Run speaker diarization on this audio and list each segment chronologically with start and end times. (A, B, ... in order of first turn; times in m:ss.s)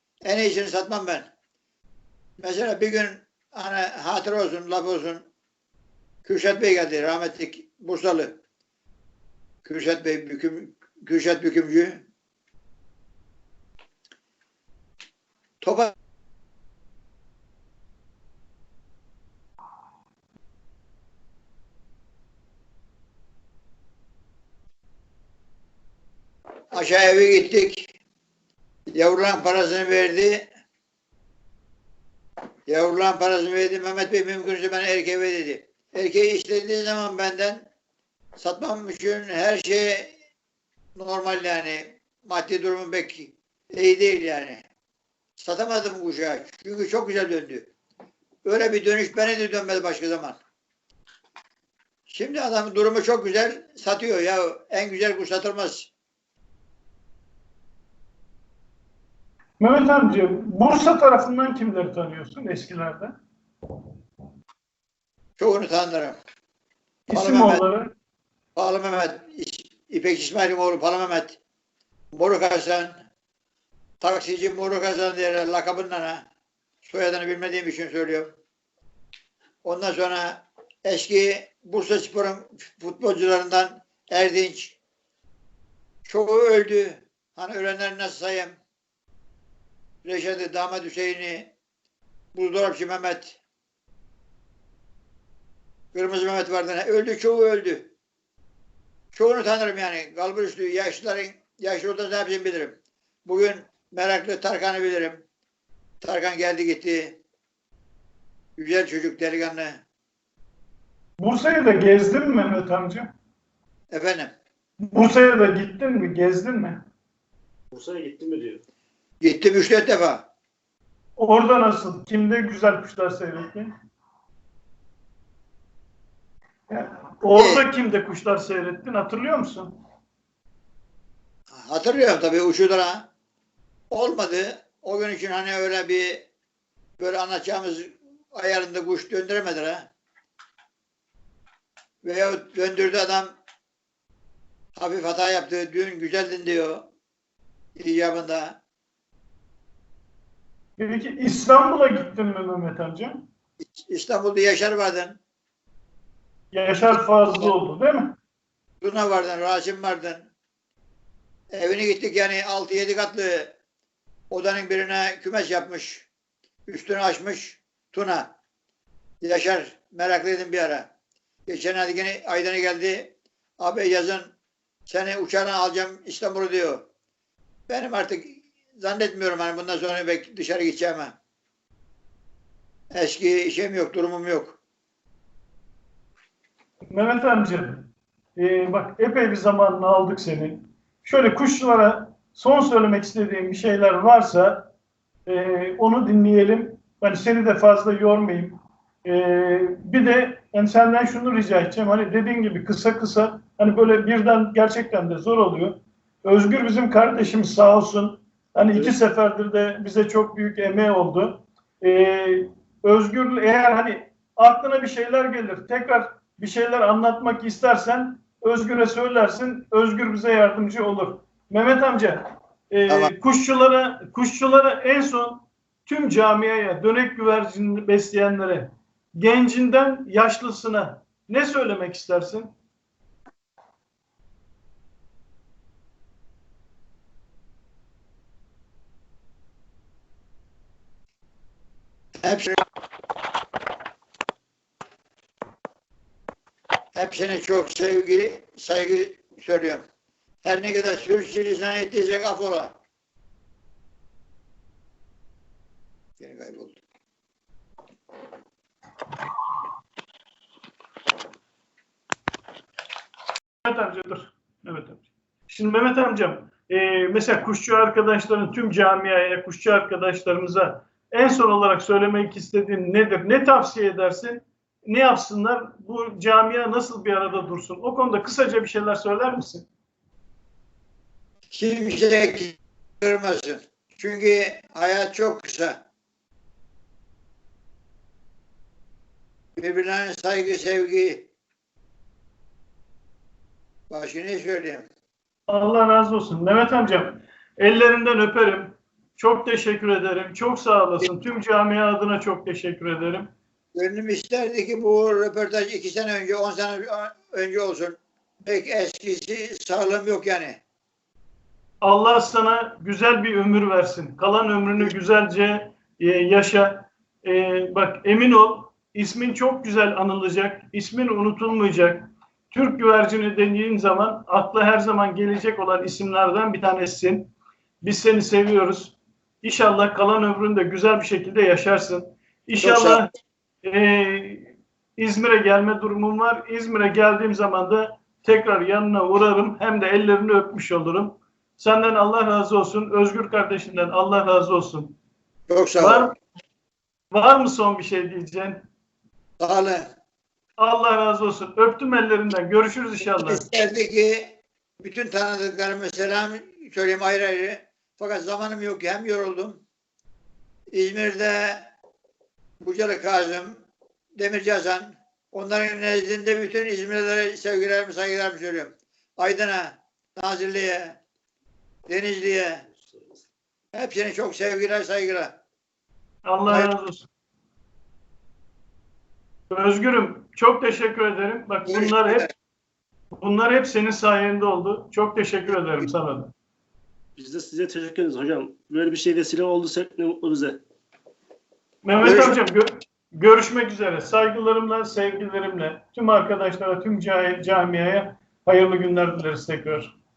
0:00.2-0:01.3 A
0:02.4-0:05.2 A
0:06.2-0:08.4 A
0:09.6-0:12.0 A
0:15.6-0:15.9 A
0:26.7-0:27.9 A
0:28.9-0:30.5 A
0:32.7-0:37.7 A
0:38.4-0:40.1 A
0:41.0-0:44.6 A
0:45.4-0:47.7 A
0:48.4-0:50.4 A
0:52.1-0:55.9 A
0:59.6-1:03.1 B
1:05.4-1:06.2 A
1:07.1-1:07.9 B
1:07.1-1:07.6 A
1:08.6-1:11.4 A
1:12.1-1:13.0 A
1:14.0-1:16.2 A
1:16.8-1:18.3 A
1:19.6-1:24.8 A
1:26.0-1:28.6 A
1:30.0-1:31.5 A
1:32.3-1:33.4 A
1:35.9-1:37.9 A
1:39.1-1:45.2 A
1:46.0-1:47.2 A
1:48.6-1:49.8 A
1:51.2-1:53.0 B
1:53.9-1:54.3 A
1:54.8-1:56.8 B
1:57.7-1:58.6 C
1:59.2-2:00.2 A
2:01.2-2:03.7 B
2:06.7-2:09.8 B
2:07.3-2:07.6 A
2:11.5-2:13.1 A
2:13.9-2:16.3 A
2:17.0-2:19.9 A
2:22.0-2:23.3 A
2:24.8-2:26.9 A
2:27.8-2:28.6 A
2:30.8-2:33.2 B
2:33.8-2:35.2 A
2:36.5-2:38.2 B
2:38.8-2:40.3 A
2:41.5-2:43.5 A
2:44.3-2:46.1 A
2:46.7-2:48.3 A
2:49.2-2:50.9 A
2:51.5-2:54.3 A
2:54.9-2:56.8 A
2:57.7-3:01.2 A
3:02.9-3:04.6 A
3:06.9-3:14.7 B
3:15.3-3:52.5 B
4:02.2-4:02.6 A
4:06.9-4:09.8 A
4:10.4-4:12.7 A
4:16.2-4:16.8 A
4:23.6-4:39.6 B
4:41.5-4:45.8 A
4:49.6-4:51.3 A
4:53.9-4:54.9 A
4:55.5-5:03.3 B
5:03.7-5:10.6 A
5:11.8-5:27.3 B
5:27.8-5:33.1 B
5:32.6-5:33.0 A
5:33.6-5:44.9 B
5:45.5-5:46.1 A
5:45.8-5:46.1 B
5:47.1-5:48.6 B
5:49.4-5:49.9 A
5:50.6-5:53.4 B
5:53.1-5:59.6 A
6:00.7-6:01.7 A
6:02.6-6:03.6 A
6:04.2-6:11.0 A
6:11.9-6:12.7 A
6:13.7-6:15.4 A
6:16.2-6:17.1 B
6:19.5-6:22.3 B
6:21.7-6:22.3 A
6:23.2-6:26.3 B
6:27.2-6:30.6 C
6:31.8-6:39.9 B
6:32.0-6:32.4 A